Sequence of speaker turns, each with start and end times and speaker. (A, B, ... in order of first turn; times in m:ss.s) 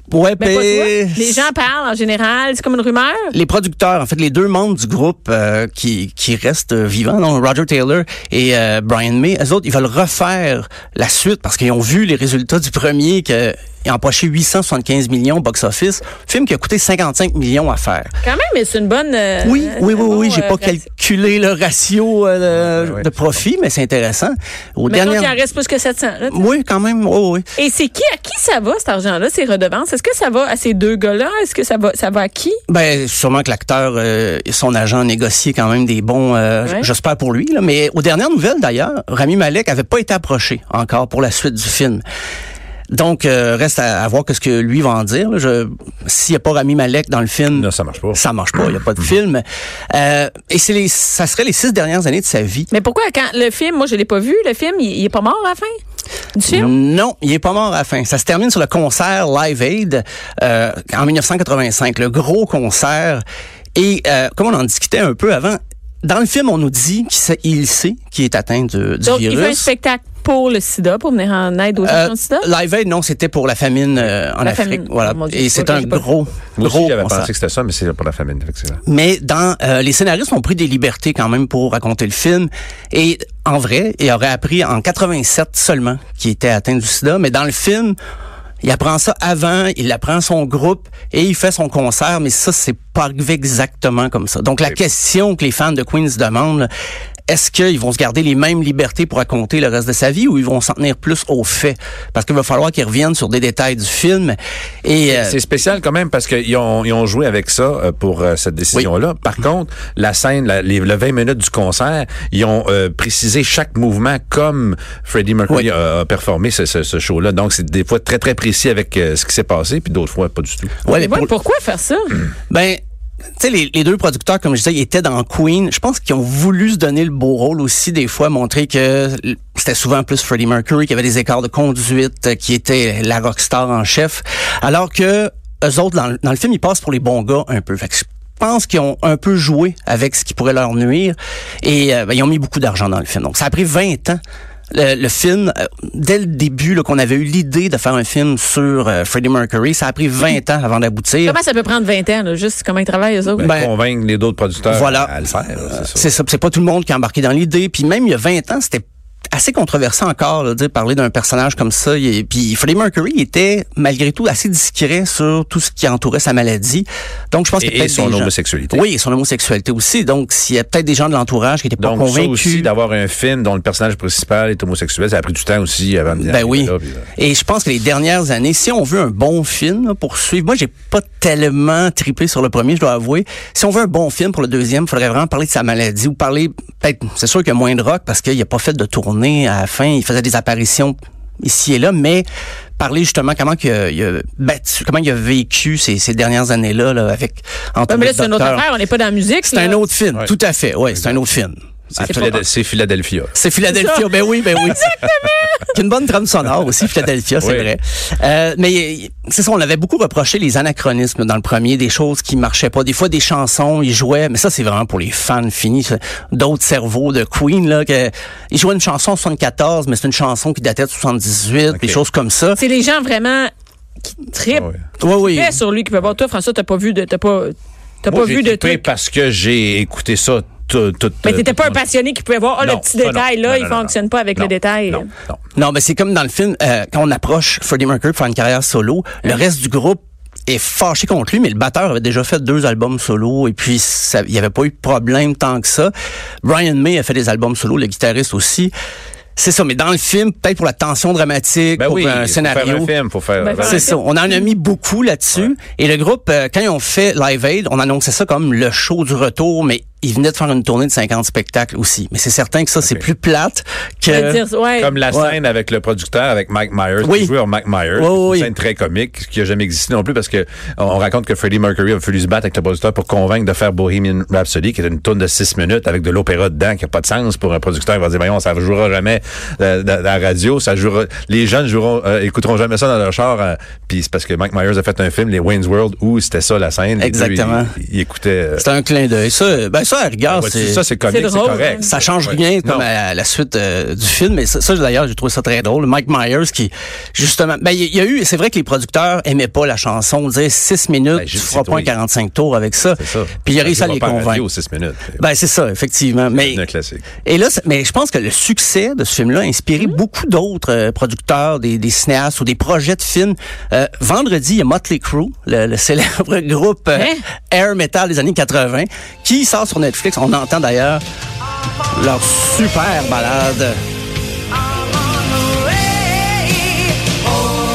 0:00.1-0:01.5 A
0:00.4-0:03.3 B
0:03.3-0:18.1 A
0:18.2-0:20.8 B
0:19.4-0:25.4 A
0:22.6-0:23.2 C
0:24.9-0:26.5 B
0:26.3-0:27.5 A
0:27.6-0:32.6 B
0:32.7-0:42.0 A
0:42.9-0:52.7 A
0:47.5-0:48.8 C
0:52.7-0:55.7 B
0:56.4-0:56.7 B
0:56.5-1:03.2 A
1:03.8-1:09.7 A
1:09.0-1:12.5 B
1:11.8-1:17.3 A
1:14.4-1:16.1 B
1:16.6-1:18.8 C
1:18.9-1:28.0 A
1:28.6-1:36.7 A
1:37.3-1:45.4 A
1:45.1-2:00.8 C
2:00.8-2:01.3 A
2:00.9-2:02.2 B
2:02.5-2:02.8 A
2:03.4-2:24.2 A
2:24.7-2:31.4 A
2:31.2-2:33.6 B
2:33.4-2:36.2 C
2:33.4-2:33.7 A
2:34.7-2:52.7 A
2:47.6-2:48.9 C
2:51.8-2:57.1 C
2:56.1-3:12.3 A
3:12.8-3:18.7 A
3:17.9-3:19.8 B
3:19.4-3:22.4 A
3:20.9-3:21.2 C
3:21.9-3:23.4 C
3:22.0-3:22.4 B
3:23.4-3:25.0 A
3:23.7-3:25.6 B
3:25.7-3:42.6 A
3:27.4-3:27.7 C
3:41.7-3:42.0 C
3:42.6-3:43.5 B
3:44.1-3:48.8 B
3:44.5-3:44.8 C
3:45.0-3:45.6 A
3:48.1-3:51.8 C
3:51.2-3:55.1 B
3:52.6-3:55.4 C
3:55.6-4:05.9 A
4:06.4-4:08.7 A
4:09.4-4:12.9 A
4:11.8-4:14.0 C
4:13.4-4:14.0 B
4:13.6-4:24.4 A
4:22.8-4:23.1 C
4:24.1-4:25.0 B
4:24.8-4:48.7 C
4:25.1-4:25.4 A
4:27.0-4:27.3 A
4:28.0-4:28.5 A
4:47.0-4:47.7 A
4:48.6-4:50.8 A
4:50.3-4:52.9 C
4:51.1-4:52.0 B
4:51.8-5:04.4 A
5:01.1-5:01.9 C
5:03.0-5:05.2 C
5:05.2-5:06.6 A
5:06.3-5:07.1 C
5:07.2-5:21.0 A
5:17.0-5:17.2 B
5:21.9-5:23.8 A